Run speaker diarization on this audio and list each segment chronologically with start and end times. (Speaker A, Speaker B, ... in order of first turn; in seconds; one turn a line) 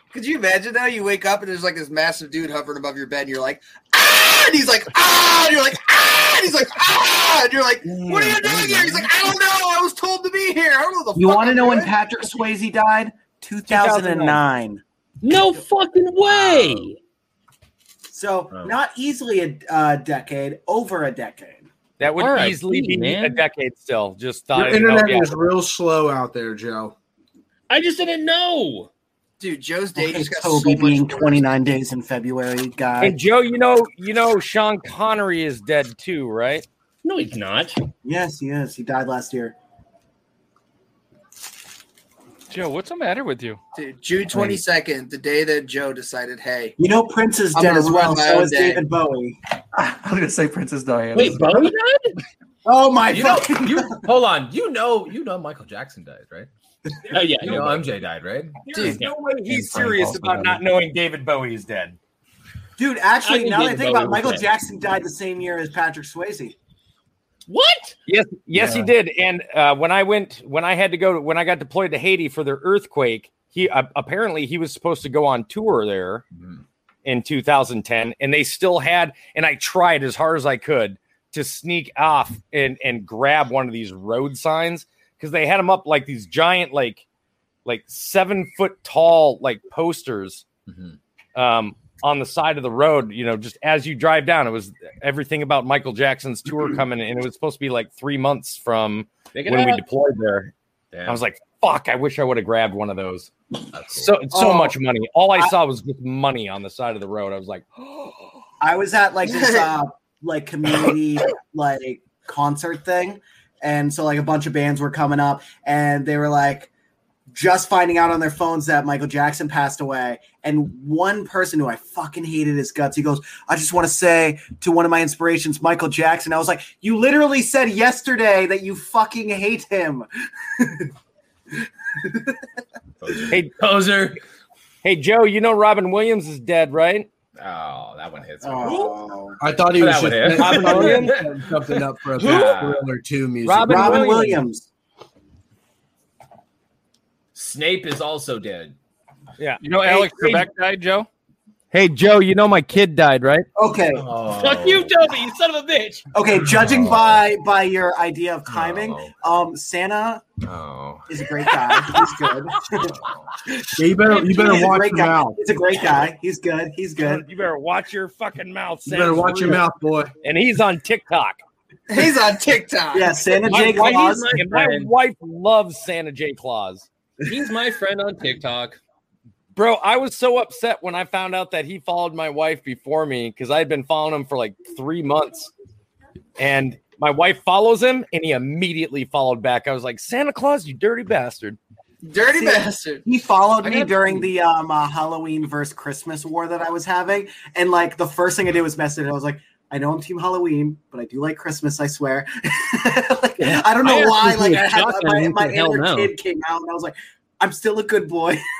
Speaker A: 0.1-11.9
Speaker B: 7.8-9.2
Speaker C: 11.2-14.8
Speaker D: 13.7-14.4
Speaker E: 15.2-17.0
Speaker F: 16.2-16.9
Speaker C: 18.1-21.7
Speaker D: 22.0-25.4
Speaker E: 22.2-23.4
Speaker G: 24.5-26.9
Speaker E: 27.7-28.9
Speaker A: 29.4-31.4
Speaker C: 30.0-33.2
Speaker D: 33.0-36.7
Speaker E: 37.0-37.8
Speaker C: 38.0-39.6
Speaker H: 42.5-43.6
Speaker A: 43.8-46.8
Speaker B: 44.4-44.6
Speaker C: 46.8-49.4
Speaker A: 47.5-48.9
Speaker B: 49.7-51.7
Speaker E: 51.1-52.2
Speaker C: 52.6-54.0
Speaker F: 53.1-56.5
Speaker E: 57.1-57.8
Speaker F: 57.4-58.6
Speaker E: 58.7-59.1
Speaker B: 58.7-60.6
Speaker D: 58.7-62.0
Speaker C: 62.8-66.5
Speaker E: 63.2-64.5
Speaker E: 67.5-68.0
Speaker D: 68.1-76.2
Speaker B: 68.5-68.9
Speaker D: 77.0-87.0
Speaker D: 87.7-90.4
Speaker F: 90.7-91.0
Speaker D: 91.3-100.5
Speaker E: 99.3-99.8
Speaker F: 100.9-101.2
Speaker D: 101.1-103.3
Speaker F: 103.7-104.2
Speaker D: 103.9-107.7
Speaker C: 104.3-104.8
Speaker C: 108.6-116.7
Speaker C: 117.3-130.9
Speaker C: 131.6-132.4
Speaker F: 133.0-134.2
Speaker D: 133.3-133.6
Speaker D: 134.8-137.1
Speaker F: 137.4-139.0
Speaker C: 138.4-139.4
Speaker G: 139.4-144.2
Speaker F: 139.7-141.2
Speaker D: 140.3-141.2
Speaker F: 142.2-142.9
Speaker D: 143.4-144.4
Speaker C: 143.6-144.7
Speaker F: 147.3-148.8
Speaker D: 149.4-150.5
Speaker H: 149.6-151.1
Speaker D: 151.7-153.5
Speaker C: 153.6-154.1
Speaker F: 153.9-154.9
Speaker E: 154.4-156.1
Speaker C: 156.1-160.2
Speaker F: 156.6-157.2
Speaker F: 158.5-159.1
Speaker F: 160.4-161.1
Speaker C: 161.1-163.0
Speaker D: 161.6-162.1
Speaker C: 163.7-167.2
Speaker G: 163.8-165.4
Speaker D: 167.0-169.7
Speaker G: 168.9-170.1
Speaker D: 170.2-171.4
Speaker A: 171.9-173.2
Speaker C: 172.9-174.3
Speaker E: 173.4-174.9
Speaker D: 173.5-176.9
Speaker E: 177.2-178.8
Speaker D: 179.6-185.5
Speaker D: 186.4-191.6
Speaker A: 192.1-193.0
Speaker C: 192.3-208.4
Speaker E: 203.4-206.1